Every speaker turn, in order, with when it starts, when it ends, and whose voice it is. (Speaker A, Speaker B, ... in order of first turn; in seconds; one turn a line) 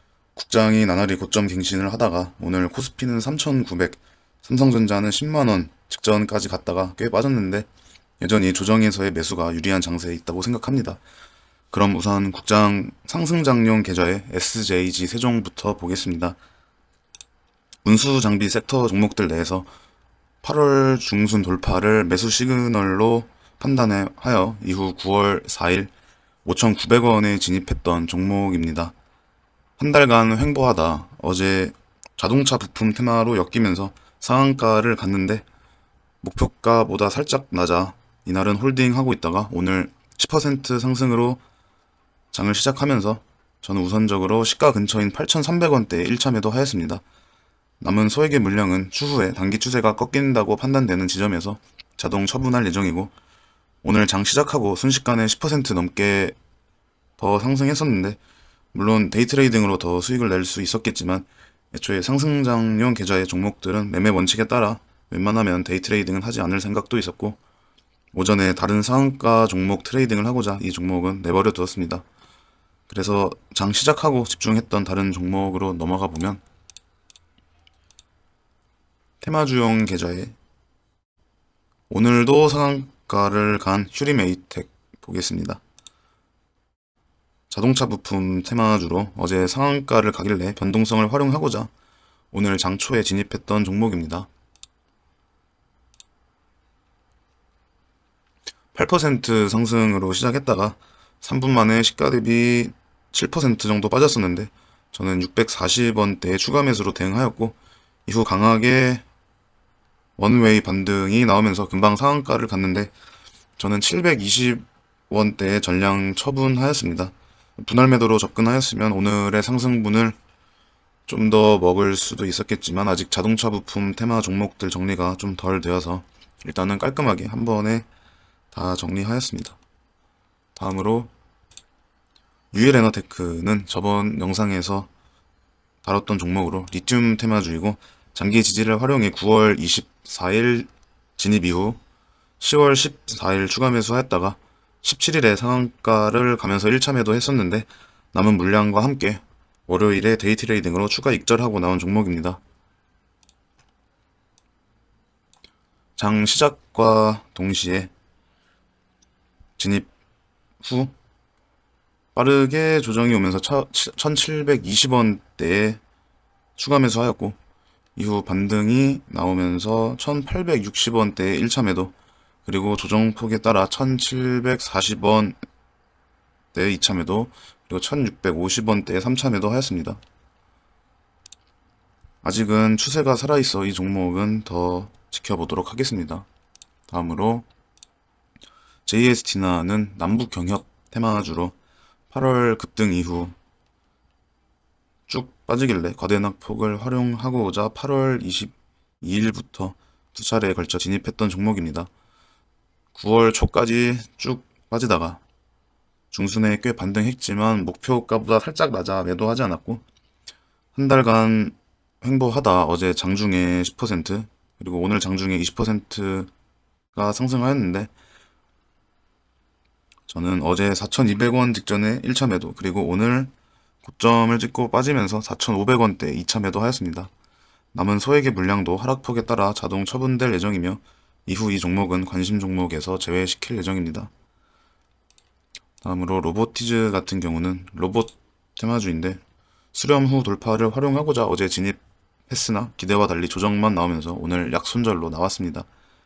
Speaker A: 0.3-7.7
Speaker A: 8.2-11.0
Speaker A: 11.7-16.4
Speaker A: 17.8-19.7
Speaker A: 20.4-25.9
Speaker A: 26.4-28.9
Speaker A: 29.8-35.4
Speaker A: 36.2-41.4
Speaker A: 42.3-47.0
Speaker A: 47.8-53.1
Speaker A: 53.8-56.4
Speaker A: 57.2-58.2
Speaker A: 58.7-67.4
Speaker A: 68.1-72.0
Speaker A: 72.9-76.4
Speaker A: 79.2-80.3
Speaker A: 81.9-85.6
Speaker A: 87.5-91.7
Speaker A: 92.3-94.3
Speaker A: 98.7-109.0
Speaker A: 110.2-112.9
Speaker A: 113.6-120.2
Speaker A: 121.1-127.9
Speaker A: 128.5-129.6
Speaker A: 130.6-131.1
Speaker A: 132.5-134.9
Speaker A: 135.8-141.8
Speaker A: 142.4-152.4
Speaker A: 156.0-157.9
Speaker A: 159.6-159.9
Speaker A: 160.6-160.9
Speaker A: 162.2-165.8
Speaker A: 166.6-167.4
Speaker A: 168.0-171.9
Speaker A: 172.5-175.4
Speaker A: 176.5-180.0
Speaker A: 182.2-186.3
Speaker A: 186.9-187.4
Speaker A: 188.9-191.6
Speaker A: 192.1-193.4
Speaker A: 195.1-201.9
Speaker A: 202.9-205.2
Speaker A: 206.1-209.8
Speaker A: 210.7-216.3
Speaker A: 216.9-217.9
Speaker A: 220.1-223.3
Speaker A: 223.8-227.1
Speaker A: 227.7-234.1
Speaker A: 235.8-239.2
Speaker A: 239.7-245.7